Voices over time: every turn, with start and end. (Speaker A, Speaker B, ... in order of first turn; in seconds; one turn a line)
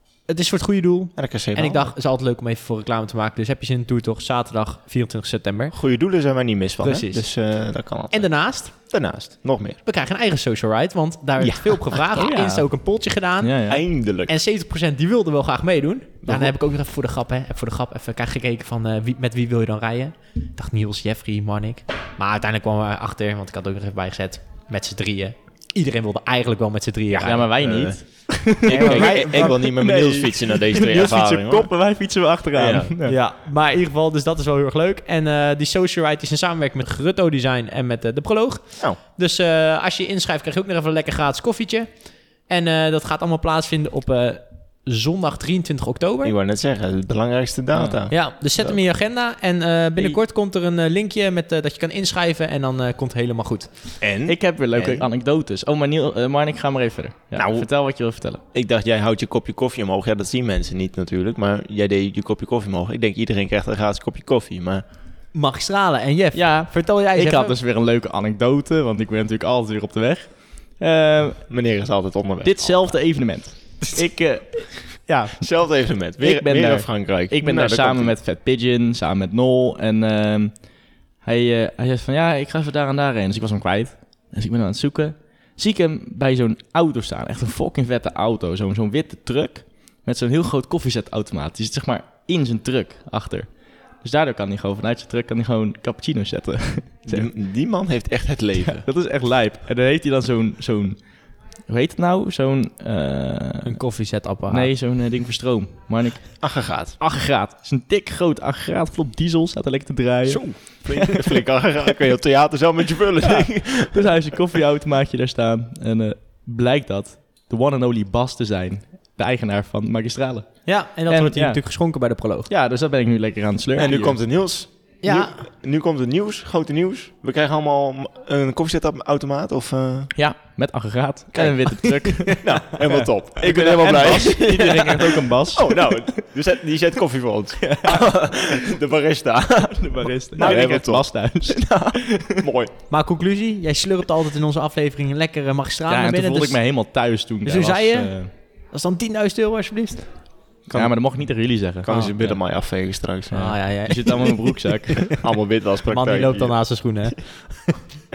Speaker A: 0.3-5.8
Speaker B: 1.2-1.9
Speaker B: 5.7-9.8
Speaker A: 6.8-7.3
Speaker A: 8.1-8.7
Speaker A: 9.8-13.7
Speaker B: 11.4-12.0
Speaker C: 12.1-12.7
Speaker C: 13.4-13.8
Speaker B: 13.7-14.3
Speaker A: 14.3-27.5
Speaker B: 16.2-16.5
Speaker C: 27.2-33.2
Speaker B: 27.6-31.7
Speaker A: 28.7-29.6
Speaker B: 32.5-33.0
Speaker A: 33.0-46.3
Speaker B: 46.2-48.8
Speaker A: 48.1-53.7
Speaker B: 54.0-55.1
Speaker C: 54.3-58.4
Speaker B: 57.4-57.7
Speaker B: 58.5-64.8
Speaker A: 65.3-67.5
Speaker C: 66.3-71.5
Speaker B: 71.5-72.9
Speaker C: 72.4-80.5
Speaker B: 75.4-78.2
Speaker C: 81.2-93.5
Speaker C: 94.0-97.3
Speaker B: 97.1-98.8
Speaker C: 98.7-101.0
Speaker C: 101.7-103.8
Speaker A: 103.7-104.7
Speaker C: 104.5-111.2
Speaker B: 106.4-107.0
Speaker B: 110.3-114.1
Speaker C: 113.2-121.9
Speaker A: 120.7-122.5
Speaker C: 122.5-124.2
Speaker B: 123.8-130.1
Speaker A: 125.0-125.4
Speaker C: 130.2-136.2
Speaker B: 131.3-142.7
Speaker A: 131.8-132.4
Speaker C: 137.6-138.1
Speaker C: 139.8-142.4
Speaker A: 142.9-146.6
Speaker C: 145.9-148.3
Speaker A: 147.4-150.1
Speaker B: 150.7-151.1
Speaker C: 150.7-152.4
Speaker B: 151.8-153.6
Speaker C: 153.3-155.2
Speaker A: 153.3-154.6
Speaker B: 155.1-156.6
Speaker A: 155.9-157.7